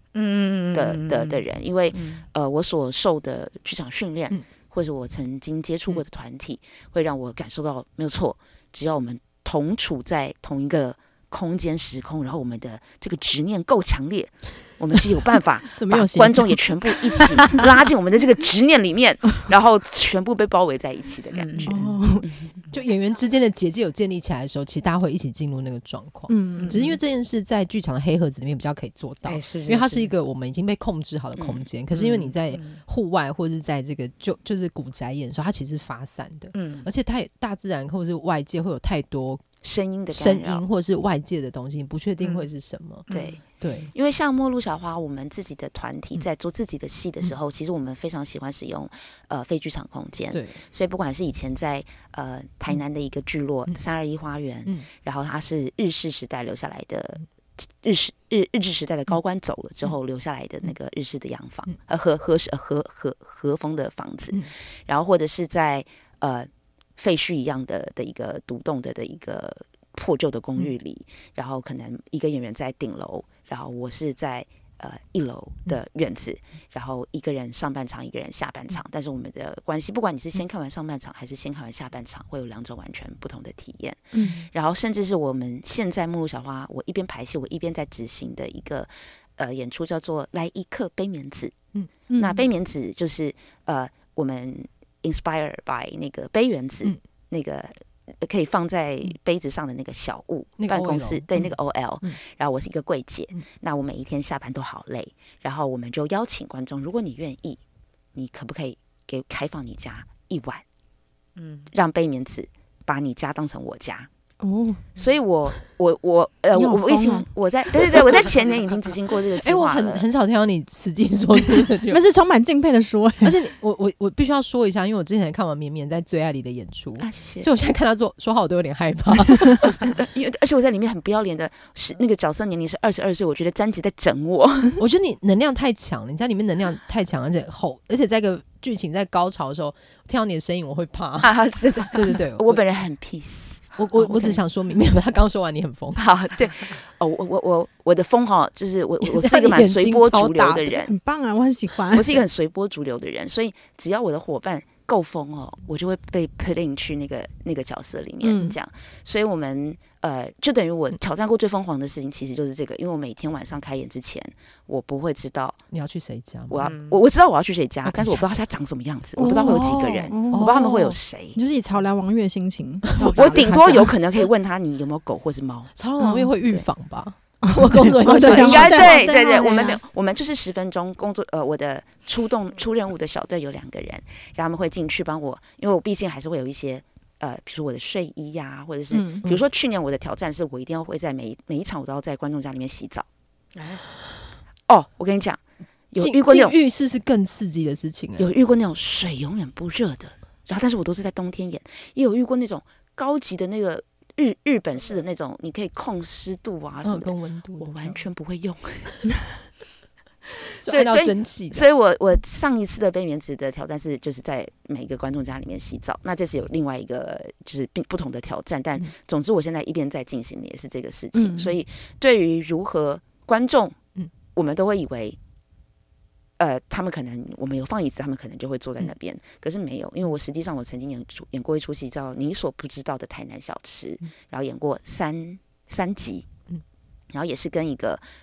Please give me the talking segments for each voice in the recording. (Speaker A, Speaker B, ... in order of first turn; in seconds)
Speaker A: 0.1-1.4, 1.9-2.2, 21.3-21.7, 29.2-30.1, 31.9-32.8, 36.5-36.9, 43.1-43.4, 111.4-111.7, 166.6-167.0, 193.5-193.8
Speaker B: 0.7-22.4, 31.4-31.6, 39.6-40.6, 43.1-43.4, 43.9-91.5, 92.2-107.6, 108.1-110.6, 111.7-114.1, 115.0-120.0, 127.0-127.5, 129.6-134.8, 141.2-144.4, 145.9-150.9, 151.9-165.6, 166.5-171.4, 173.0-175.7, 178.3-193.1, 194.7-195.4, 195.9-196.6, 198.2-209.1, 210.7-223.8, 224.3-225.2, 226.4-236.3, 237.1-238.0
Speaker C: 15.8-17.6, 21.6-22.2, 26.3-27.0, 84.1-84.5, 92.1-92.5, 114.4-114.8, 116.5-117.3, 121.9-123.3, 150.7-152.2, 158.2-158.6, 169.2-173.9, 176.0-176.3, 177.4-179.8, 188.9-189.3, 221.1-221.6
Speaker D: 22.7-39.4, 40.1-43.1, 43.6-43.9, 50.3-50.6, 100.6-101.5, 119.4-122.0, 123.2-129.8, 134.8-141.3, 141.9-142.6, 143.8-146.0, 149.0-150.7, 165.7-166.6, 167.8-168.3, 169.3-170.8, 172.8-173.6, 175.7-178.9, 196.0-198.3, 206.8-208.0, 210.6-211.7